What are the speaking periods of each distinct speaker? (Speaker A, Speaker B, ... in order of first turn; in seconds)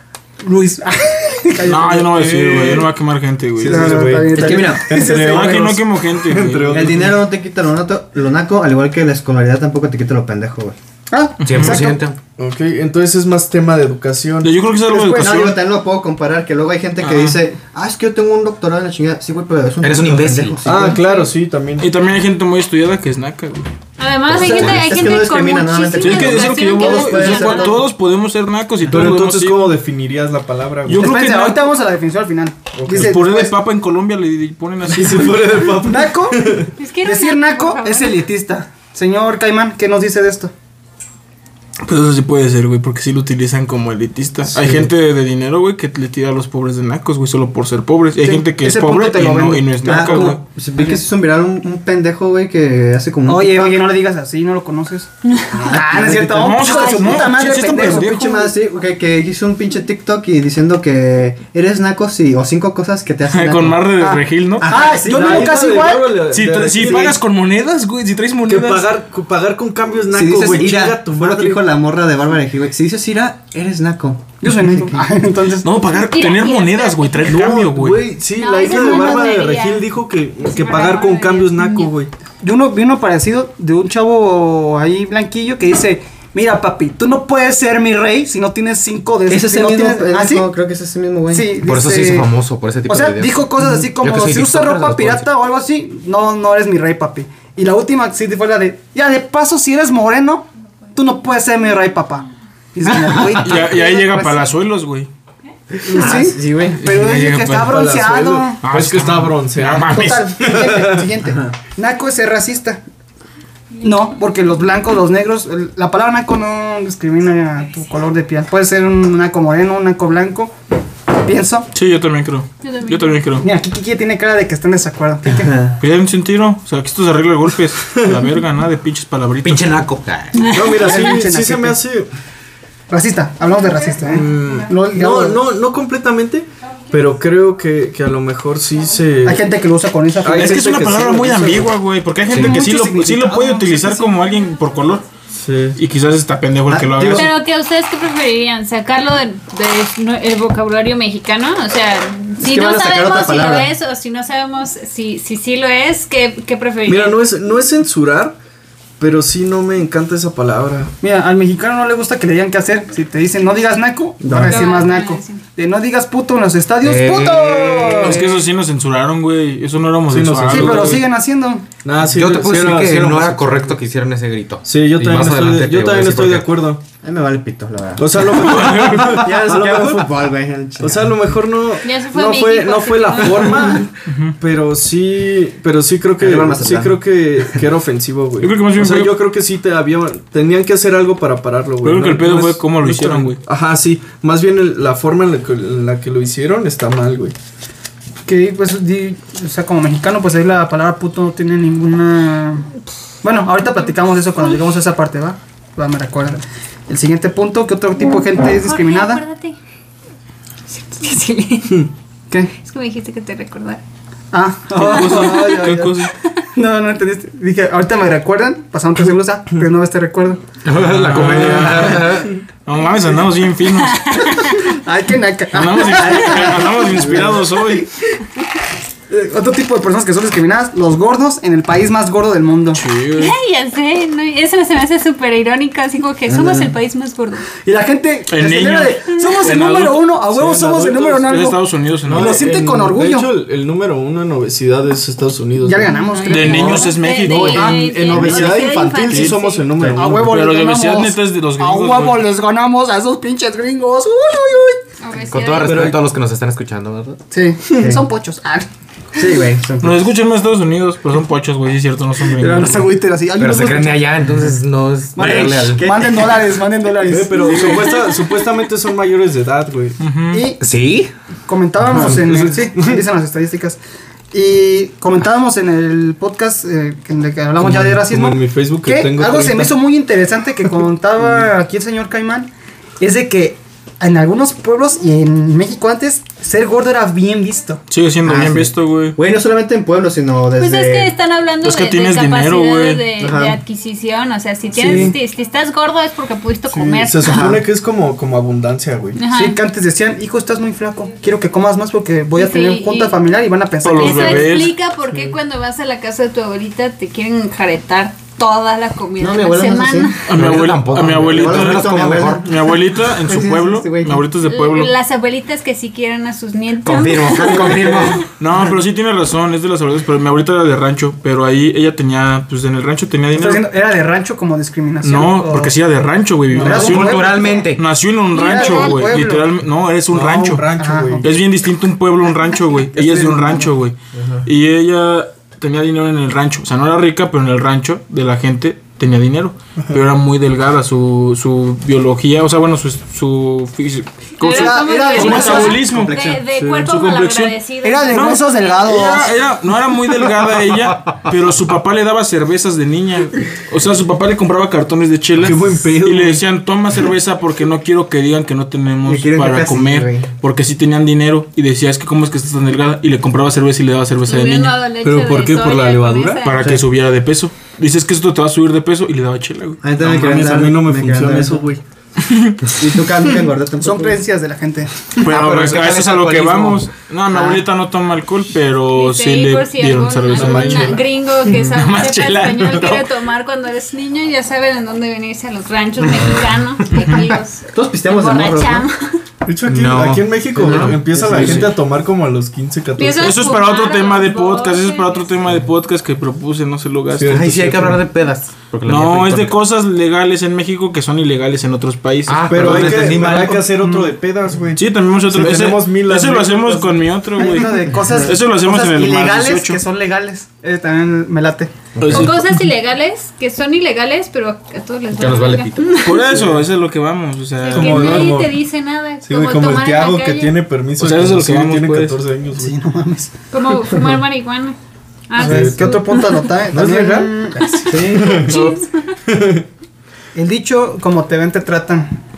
Speaker A: 0.4-2.1, 3.7-5.8, 11.1-12.0, 14.9-15.4, 30.9-33.5, 35.8-40.5, 48.2-51.0, 53.3-55.1, 55.6-58.3, 64.0-66.2, 74.4-75.7, 82.4-90.5, 91.3-92.3, 92.9-104.5, 105.8-108.6, 109.9-112.8, 113.8-120.5, 121.1-121.7, 123.4-125.5, 130.7-131.8, 132.9-135.5, 139.2-140.9, 142.3-144.2, 161.0-168.2, 170.5-171.7, 198.2-202.7, 203.2-209.2, 214.3-220.4, 224.6-227.8, 229.1-232.8, 237.6-243.4, 245.6-246.9, 249.9-254.8, 257.3-258.7, 262.4-264.3, 265.1-267.9, 270.3-270.6, 271.5-273.8, 274.3-287.8, 294.7-295.1, 299.3-304.6, 323.3-325.7, 326.5-327.7, 328.3-329.5, 330.8-331.3, 332.9-333.7, 344.4-345.8, 347.8-349.3, 373.8-374.9, 403.6-404.1, 407.4-411.7, 422.5-423.3, 425.4-428.1, 430.3-432.1
Speaker B: 1.6-4.0, 5.2-7.1, 11.4-11.8, 14.4-15.6, 17.0-17.4, 21.8-23.7, 26.0-29.7, 30.9-31.7, 32.9-35.6, 41.8-50.4, 56.1-58.5, 63.3-64.7, 66.3-68.9, 75.6-78.1, 103.4-105.1, 106.7-107.8, 108.6-110.3, 121.7-123.5, 125.8-129.7, 140.3-145.0, 145.7-147.3, 168.0-171.0, 178.4-179.2, 184.1-184.3, 188.4-189.2, 191.8-193.4, 214.8-216.1, 220.8-224.3, 225.5-227.9, 232.7-233.3, 238.3-240.1, 241.2-242.4, 246.3-248.4, 249.1-249.4, 250.1-252.2, 259.8-262.9, 270.0-270.4, 287.9-289.2, 291.6-293.0, 303.8-304.7, 310.3-314.9, 318.4-323.6, 325.0-330.7, 331.2-346.1, 347.0-347.4, 348.1-364.7, 366.4-369.8, 372.2-372.6, 375.2-383.0, 391.3-391.6, 393.1-397.5, 398.8-403.2, 404.8-409.8, 412.0-412.3, 416.0-418.3, 421.0-422.2, 428.4-428.8
Speaker C: 2.1-2.9, 3.6-7.2, 12.4-14.5, 20.6-21.9, 28.8-31.2, 32.8-33.1, 34.8-36.7, 44.5-44.9, 64.9-67.2, 68.5-71.6, 77.2-82.1, 107.6-111.1, 127.9-128.2, 130.4-132.1, 134.0-139.4, 140.2-141.7, 145.3-145.8, 156.9-158.4, 159.0-160.9, 170.1-171.0, 171.8-173.6, 174.6-176.8, 178.0-180.1, 180.8-197.3, 240.3-241.3, 242.1-250.4, 255.6-256.0, 267.0-270.0, 271.9-273.0, 277.6-279.7, 296.7-299.2, 330.1-331.3, 346.5-347.5, 355.4-356.4, 365.0-366.8, 370.0-371.8, 380.3-381.0, 389.4-393.4, 397.1-398.0, 402.5-407.0, 416.3-416.6, 417.7-418.6, 419.2-422.7, 425.4-426.0, 426.7-427.4, 428.0-428.6, 429.3-429.6
Speaker D: 4.3-4.8, 6.7-10.8, 15.2-21.0, 24.3-27.8, 49.8-53.8, 55.6-63.9, 64.6-65.6, 70.1-75.1, 89.3-91.6, 106.0-106.5, 125.3-125.8, 146.7-147.3, 152.4-153.7, 164.2-164.8, 177.0-178.4, 179.1-181.4, 186.2-187.0, 236.3-236.7, 259.1-260.0, 265.2-266.1, 288.2-291.1, 293.2-293.6, 297.2-297.6, 309.2-310.1, 311.2-312.5, 313.2-314.3, 316.9-318.2, 345.5-346.4, 359.0-360.3, 369.8-371.6, 372.6-374.2, 377.3-377.6, 387.7-388.9, 390.5-391.7, 412.0-412.3, 427.9-428.4
Speaker E: 11.4-12.2, 19.8-20.8, 91.6-95.2, 106.0-106.7, 129.4-130.4, 166.8-168.2, 172.0-176.5, 220.6-222.3, 255.3-257.2, 263.4-266.3, 270.6-271.1, 310.3-312.4, 316.8-318.2, 326.6-327.8, 375.2-376.9, 389.6-391.7, 397.2-399.6, 402.3-403.7, 415.1-416.0
Speaker F: 24.0-27.7, 36.8-38.2, 76.1-77.3, 78.3-79.9, 80.4-81.9, 122.6-123.2, 130.4-130.8, 147.1-157.2, 164.4-165.4, 181.8-183.9, 208.5-209.6, 210.7-211.9, 212.6-213.8, 214.8-215.7, 223.9-224.6, 233.2-237.5, 245.9-249.7, 255.0-255.9, 290.6-297.5, 299.1-299.6, 302.3-303.2, 304.0-310.3, 314.4-318.1, 328.3-329.0, 344.4-349.3, 364.3-366.6, 378.9-389.2, 393.0-395.3, 412.1-416.2, 417.6-420.5, 423.5-424.8, 425.3-426.5, 428.1-429.1